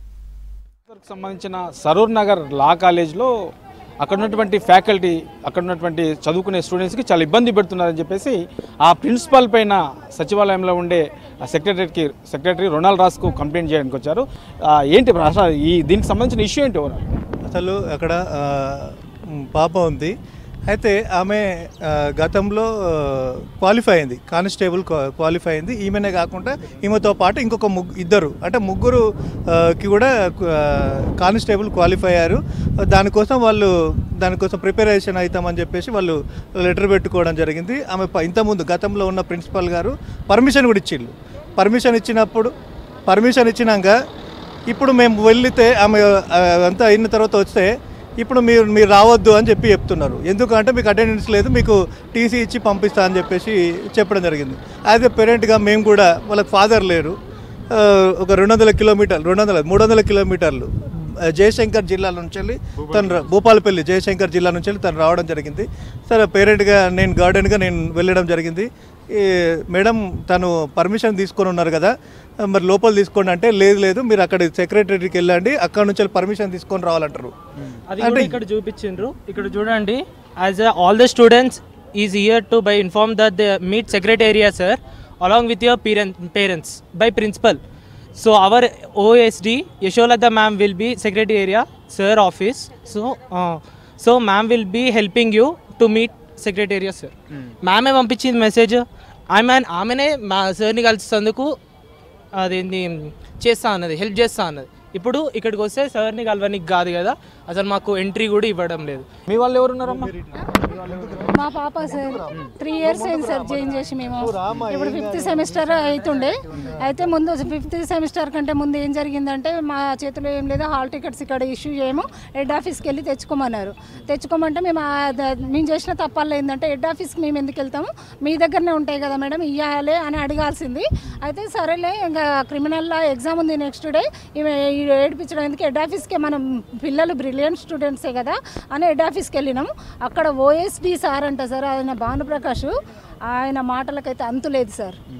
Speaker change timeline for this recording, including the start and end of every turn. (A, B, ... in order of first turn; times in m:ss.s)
0:00.9-0:03.3 A
0:04.0-0:14.2 A
0:14.8-0:17.0 A
0:17.5-0:18.9 B
0:19.5-0:20.1 B
0:20.7-0:32.4 B
0:32.9-0:42.5 B
0:43.1-0:43.9 B
0:44.7-0:47.7 B
0:48.2-0:57.1 B
0:57.7-1:11.9 B
1:12.5-1:17.3 B
1:17.9-1:27.6 C
1:18.0-1:18.4 B
1:28.2-1:41.6 C
1:42.4-1:49.0 C
1:49.3-1:51.4 A
1:49.8-1:51.3 B
1:51.3-2:22.7 D
1:51.9-1:56.8 B
2:23.3-2:25.0 D